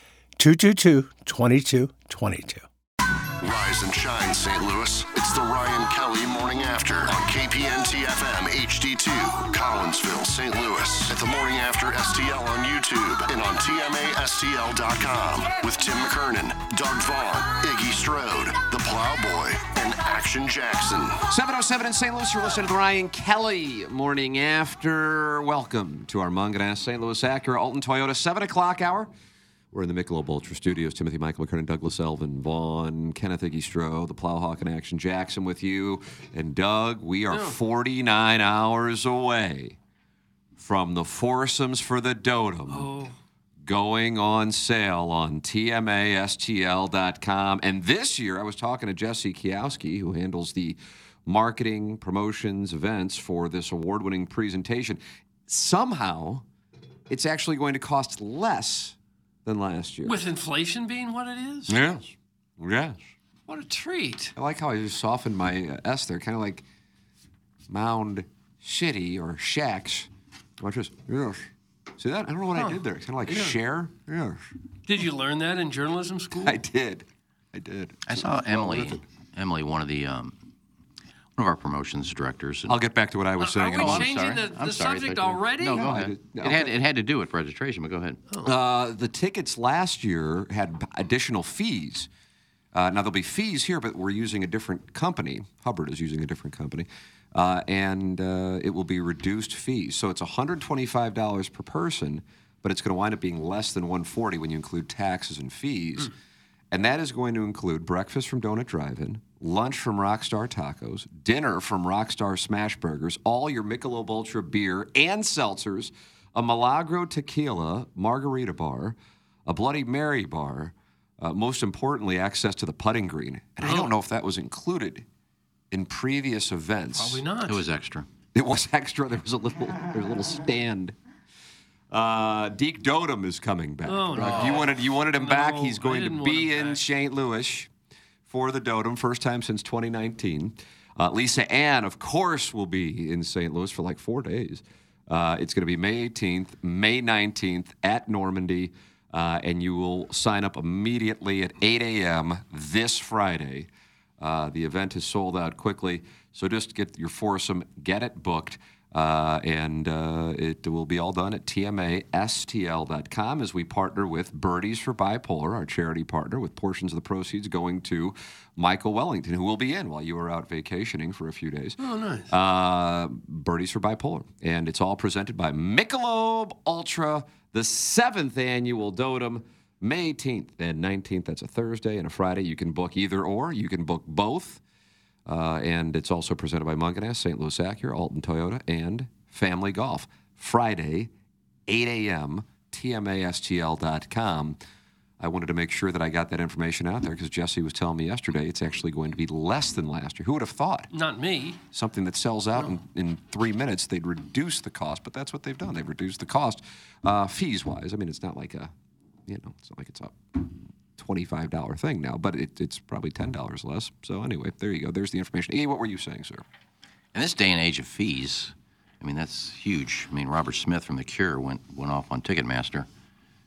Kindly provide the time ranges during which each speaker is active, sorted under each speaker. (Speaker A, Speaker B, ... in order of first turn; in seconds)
Speaker A: 0.4-2.7
Speaker B: 3.4-21.2
Speaker C: 21.3-29.1, 29.7-39.8, 40.6-42.9, 43.7-56.4, 57.1-60.2, 61.7-63.0, 64.4-66.6, 67.7-70.1, 70.6-74.4, 76.3-79.0, 82.7-84.2, 85.7-86.7, 88.4-92.1, 92.7-106.1, 106.7-125.0, 125.7-127.2, 128.3-130.9, 131.9-137.7, 138.3-171.8, 172.3-184.6, 185.3-191.1, 191.7-194.6, 195.2-200.9, 201.7-208.7, 209.3-216.4
Speaker D: 37.3-37.6, 42.7-43.1, 60.0-61.8, 63.5-64.3, 72.5-73.6, 74.9-76.6, 83.4-85.9, 123.6-123.9, 127.0-127.6, 133.9-136.8, 171.8-172.3, 200.9-201.6
Speaker E: 78.1-80.4, 81.4-82.8, 83.8-88.2, 127.5-128.1, 134.2-134.7, 217.1-222.9